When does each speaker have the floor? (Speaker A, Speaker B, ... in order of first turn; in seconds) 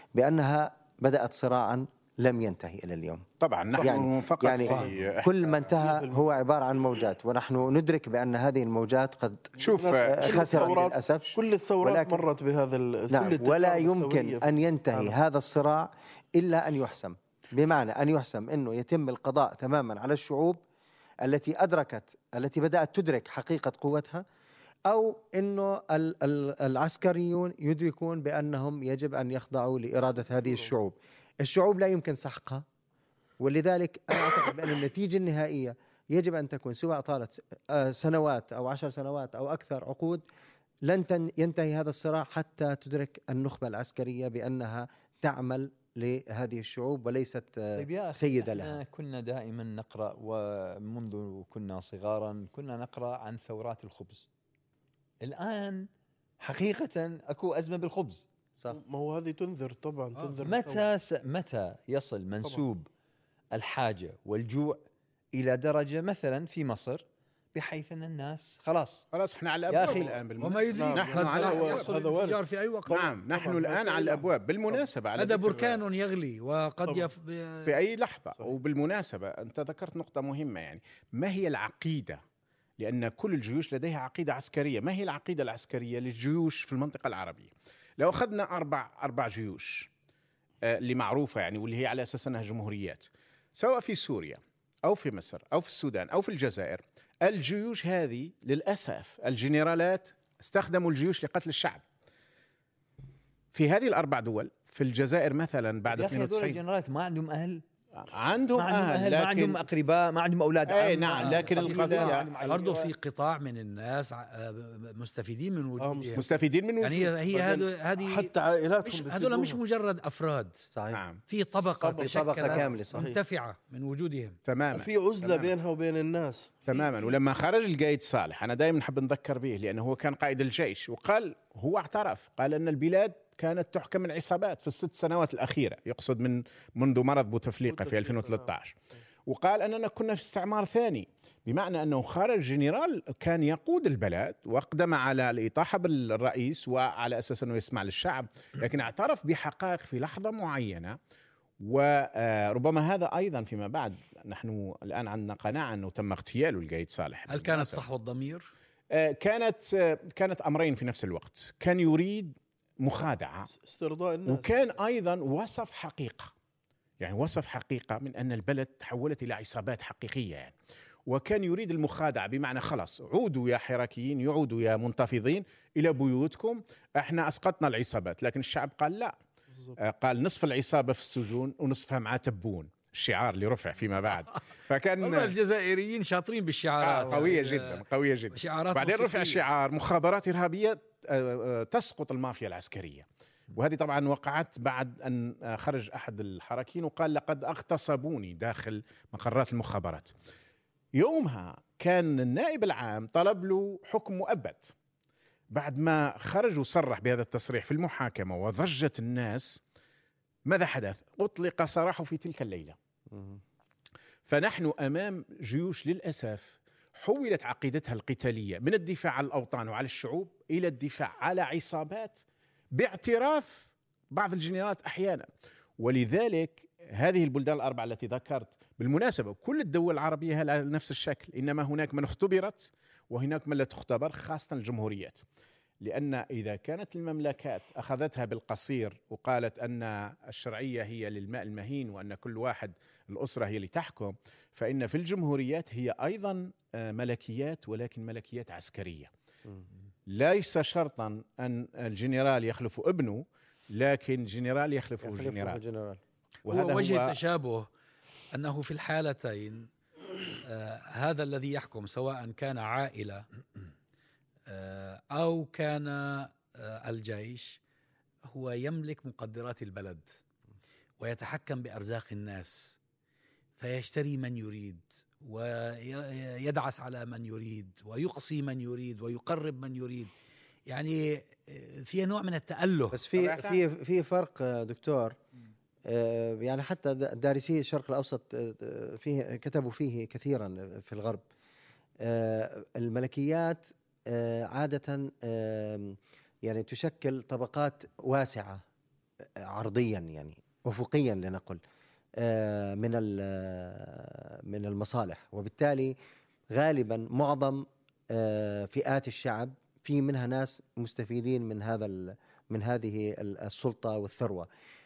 Speaker A: 0.1-3.2, 3.8-12.3, 13.1-20.6, 21.2-24.2, 24.9-32.6, 33.4-40.2, 40.9-48.8, 120.7-121.0, 121.8-123.1, 213.1-213.4, 255.0-256.0, 282.9-285.2, 285.9-291.2, 292.0-298.6, 299.4-301.6, 302.2-305.9, 306.5-314.5
Speaker B: 3.4-5.3, 9.6-10.8, 69.1-72.0, 72.9-75.8, 77.6-82.2, 82.8-89.9, 90.6-101.8, 103.5-106.6, 108.0-109.6, 110.7-112.4, 116.2-117.1, 120.9-121.2, 124.5-125.5, 126.7-151.0, 151.6-157.8, 158.9-163.5, 164.3-166.3, 167.0-170.5, 171.1-179.1, 179.8-185.3, 186.8-200.1, 201.0-204.7, 205.5-209.6, 210.5-212.8, 214.3-222.2, 222.7-225.3, 225.8-235.2, 235.8-249.1, 250.1-255.6, 256.5-257.2, 283.1-283.6
Speaker C: 4.6-4.9, 5.6-6.3, 9.7-15.1, 58.7-60.9, 70.8-74.8, 115.8-116.3, 117.3-119.6, 121.8-123.2, 124.7-126.7, 137.7-138.5, 163.6-164.6
Speaker D: 47.8-54.3, 55.2-55.9, 56.4-58.2, 60.4-62.9, 63.5-69.1, 69.7-70.1, 105.9-107.6, 108.6-112.9
Speaker E: 70.4-73.0, 75.2-77.7, 111.2-116.2, 116.8-118.3, 118.8-120.7, 121.3-124.4, 157.3-158.5, 185.0-189.4, 256.5-257.7, 258.3-259.7, 260.4-263.2, 264.5-267.6, 268.3-270.2, 271.0-272.8, 273.6-280.1, 280.7-283.0